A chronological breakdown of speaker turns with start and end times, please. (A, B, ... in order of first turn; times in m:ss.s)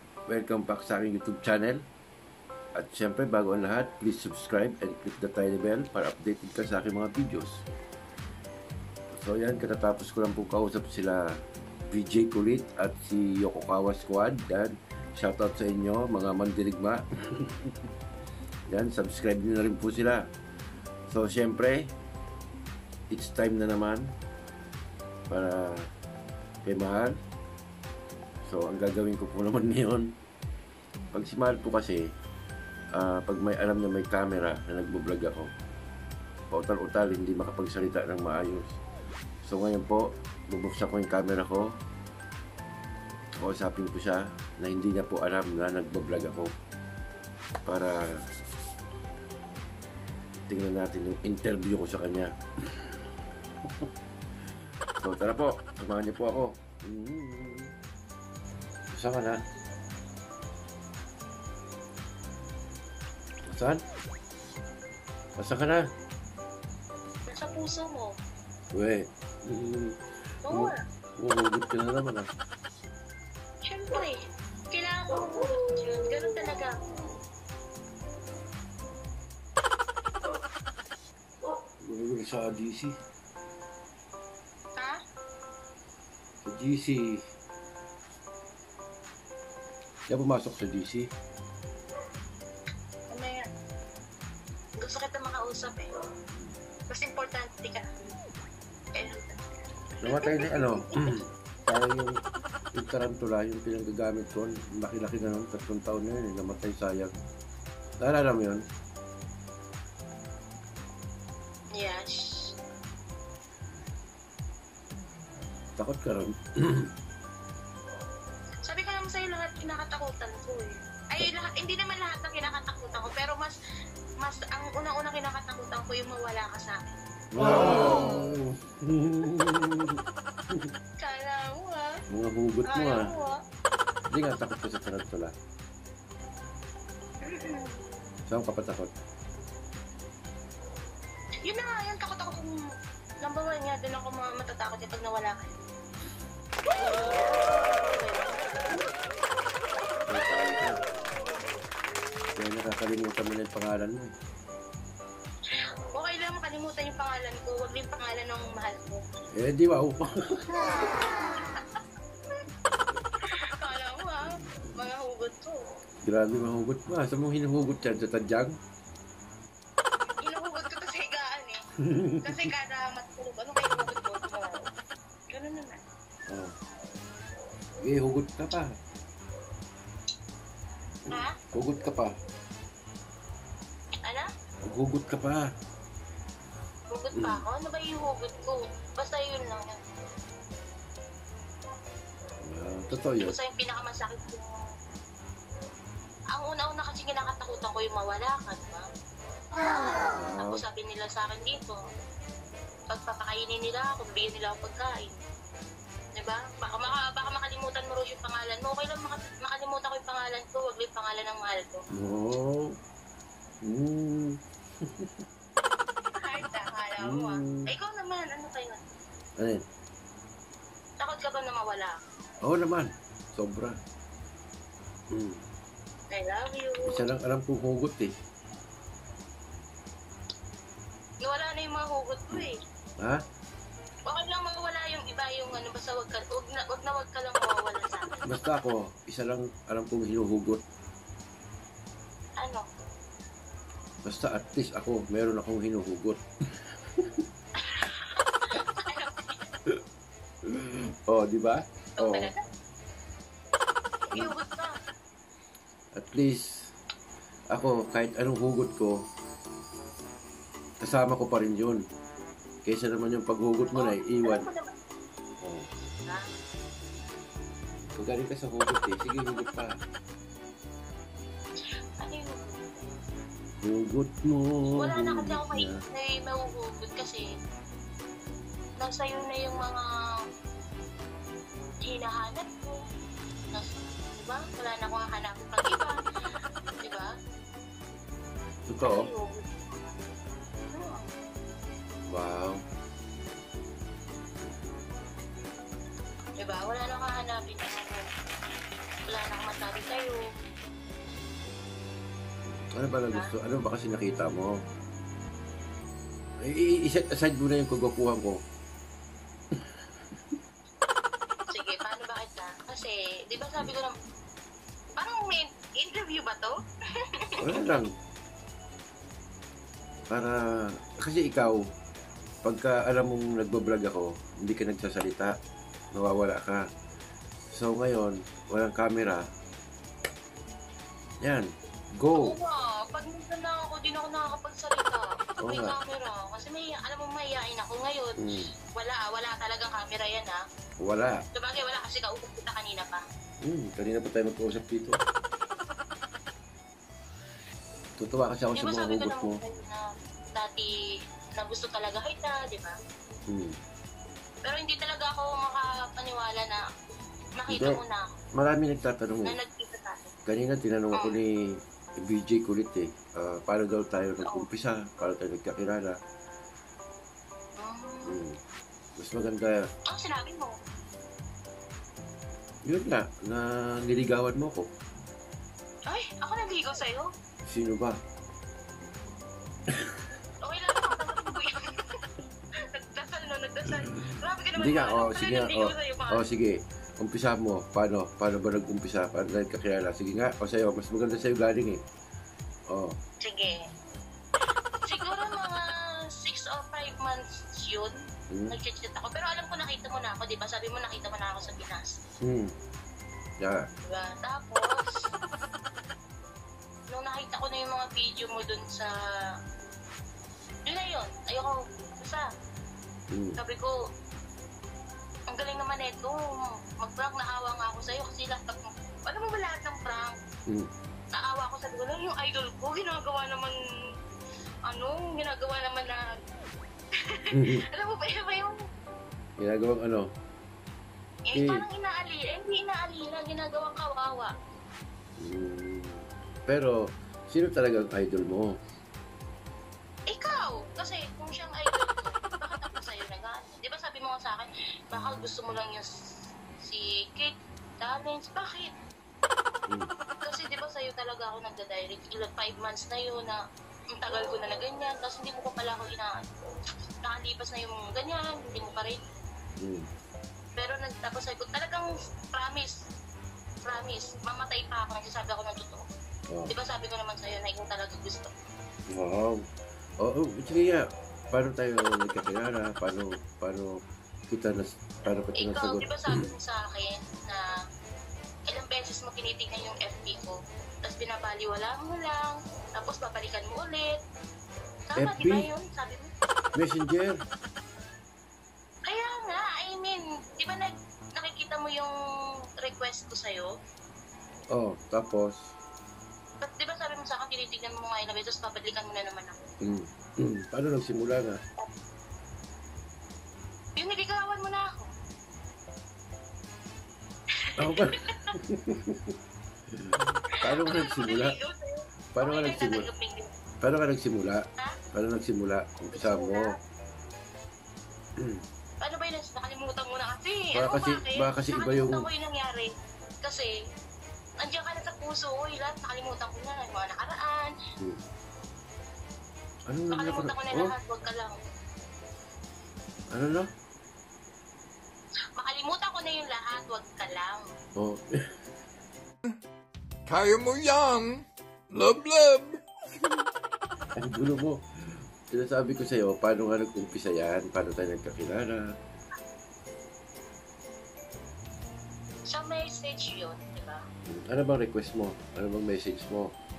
0:00.3-0:01.8 A
0:02.8-0:07.6 A
0:09.1-0:11.4 A
0:11.9-0:17.7 A
0:18.7-0:20.3 A
0:21.1-0:21.9 A
0:23.1-0:24.1 A
0:25.3-0:25.9 A
0:26.6-0:27.2 A
0:28.5-0:30.1 A
0:31.1-0:32.1 A
0:33.0-0:35.5 A
0:36.5-0:38.8 A
0:39.4-0:41.8 A
0:43.4-0:46.6 A
0:47.6-0:48.3 A
0:50.5-0:53.0 A
0:55.0-0:57.7 A
0:58.9-0:59.4 A
1:03.4-1:03.8 A
1:05.4-1:05.9 A
1:07.3-1:08.2 B
1:08.7-1:12.3 A
1:10.4-1:10.8 B
1:13.6-1:14.2 B
1:14.7-1:16.8 B
1:21.8-1:23.0 A
1:26.4-1:27.2 A
1:30.1-1:31.1 A
1:33.1-1:33.5 B
1:34.8-1:35.9 B
1:36.9-1:37.9 B
1:39.0-1:41.1 B
1:40.0-1:42.2 A
1:42.8-1:47.1 A
1:48.0-1:48.6 A
1:51.8-1:52.5 B
1:55.8-1:56.9 A
1:58.6-2:03.6 B
2:04.2-2:06.8 B
2:07.3-2:10.7 A
2:11.0-2:11.9 B
2:12.1-2:13.1 A
2:12.7-2:13.4 B
2:14.1-2:15.3 A
2:17.2-2:17.8 B
2:18.3-2:18.9 A
2:21.4-2:22.6 B
2:23.2-2:25.6 B
2:26.7-2:28.9 B
2:30.1-2:30.8 A
2:32.4-2:34.1 A
2:35.9-2:39.0 B
2:39.3-2:40.9 A
2:40.9-2:41.8 B
2:43.3-2:45.6 B
2:46.0-2:48.6 A
2:50.2-2:51.6 B
2:51.8-2:52.4 A
2:52.2-2:54.7 B
2:55.3-2:55.8 B
2:56.3-2:56.6 A
2:57.8-2:58.7 A
3:01.1-3:02.1 A
3:01.1-3:01.4 B
3:04.6-3:05.5 A
3:06.9-3:09.8 B
3:07.1-3:07.4 A
3:12.4-3:13.4 A
3:13.0-3:14.6 B
3:16.3-3:18.8 B
3:20.1-3:20.6 A
3:20.4-3:21.8 B
3:22.9-3:25.2 B
3:26.2-3:31.8 B
3:31.9-3:32.7 A
3:33.6-3:35.2 A
3:36.2-3:38.8 B
3:37.0-3:37.7 A
3:39.4-3:39.6 A
3:41.0-3:42.0 B
3:42.4-3:43.8 A
3:45.1-3:45.4 A
3:46.1-3:47.0 B
3:46.8-3:48.1 A
3:51.2-3:52.6 B
3:52.3-3:53.2 A
3:54.1-3:58.3 B
3:58.2-4:00.6 A
4:04.0-4:06.2 A
4:06.9-4:07.2 A
4:07.6-4:09.4 B
4:10.4-4:12.3 A
4:12.0-4:12.4 B
4:14.1-4:14.7 B
4:15.9-4:16.7 A
4:17.5-4:19.0 A
4:20.8-4:21.8 A
4:22.6-4:24.5 A
4:23.7-4:24.7 B
4:25.4-4:25.7 A
4:25.9-4:26.3 B
4:27.9-4:29.8 A
4:32.0-4:32.9 B
4:33.6-4:35.8 A
4:34.8-4:37.2 B
4:38.8-4:39.8 B
4:41.8-4:42.8 B
4:43.5-4:46.0 B
4:46.8-4:47.1 B
4:48.7-4:49.1 A
4:48.8-4:49.8 B
4:50.7-4:51.0 B
4:52.1-4:52.6 A
4:56.4-4:58.0 B
4:59.1-5:00.2 B
5:02.4-5:04.5 A
5:06.4-5:08.4 A
5:11.5-5:13.9 B
5:15.0-5:17.8 B
5:17.4-5:17.9 A
5:20.1-5:21.7 A
5:22.4-5:25.4 A
5:25.9-5:26.7 A
5:27.5-5:29.3 A
5:31.2-5:32.4 A
5:32.2-5:38.2 B
5:35.4-5:35.8 A
5:38.2-5:38.5 A
5:38.7-5:40.4 B
5:40.8-5:41.2 A
5:41.3-5:43.0 B
5:43.4-5:45.0 A
5:48.0-5:49.4 A
5:48.5-5:50.7 B
5:51.4-5:52.8 B
5:53.3-5:53.6 A
5:54.4-5:56.6 B
5:57.4-5:58.1 B
5:57.5-5:57.8 A
5:58.3-5:59.4 A
5:59.2-6:00.1 B
6:00.2-6:06.0 A
6:07.6-6:08.2 B
6:08.0-6:08.4 A
6:09.0-6:09.7 A
6:09.9-6:10.6 B
6:12.6-6:14.7 A
6:15.9-6:17.1 B
6:17.5-6:18.0 A
6:19.7-6:19.9 A
6:20.4-6:21.9 B
6:22.7-6:26.2 B
6:24.6-6:31.8 A
6:32.7-6:33.0 A
6:33.2-6:33.6 B
6:34.8-6:38.0 B
6:38.3-6:38.6 A
6:38.5-6:41.9 B
6:42.2-6:42.5 A
6:43.8-6:45.1 B
6:46.9-6:48.9 B
6:50.7-6:52.2 B
6:53.1-6:53.4 A
6:53.4-6:53.7 B
6:55.3-6:56.2 B
6:56.8-7:00.2 B
7:01.1-7:03.5 B
7:04.7-7:06.0 B
7:07.1-7:08.6 B
7:07.3-7:07.6 A
7:09.4-7:10.1 A
7:11.3-7:14.3 B
7:11.3-7:11.7 A
7:15.2-7:18.6 A
7:20.1-7:25.9 B
7:26.6-7:28.7 B
7:30.2-7:33.4 B
7:33.9-7:36.2 B
7:37.0-7:39.0 B
7:39.6-7:39.9 A
7:40.6-7:42.7 B
7:43.6-7:45.8 B
7:46.3-7:46.5 A
7:46.5-7:48.3 B
7:48.9-7:49.4 A
7:50.0-7:53.8 A
7:54.3-7:56.2 A
7:55.4-7:57.5 B
7:58.5-8:04.0 B
8:04.9-8:06.1 B
8:05.0-8:05.5 A
8:06.5-8:07.2 A
8:08.9-8:11.9 B
8:12.6-8:13.5 B
8:14.5-8:15.6 A
8:16.4-8:19.4 B
8:19.6-8:21.4 A
8:23.8-8:24.9 B
8:27.6-8:29.1 A
8:27.6-8:28.3 B
8:29.7-8:31.4 A
8:30.6-8:33.3 B
8:32.1-8:32.9 A
8:33.6-8:36.6 A
8:35.9-8:36.6 B
8:38.2-8:38.4 A
8:38.8-8:42.7 B
8:40.5-8:42.1 A
8:43.2-8:43.5 B
8:44.4-8:47.5 B
8:49.7-8:50.7 A
8:49.9-8:51.4 B
8:53.1-8:53.5 A
8:55.4-8:57.5 B
8:57.8-8:58.0 A
9:00.1-9:02.6 C
9:04.0-9:04.6 A
9:05.3-9:08.7 A
9:12.3-9:13.8 B
9:14.1-9:16.3 A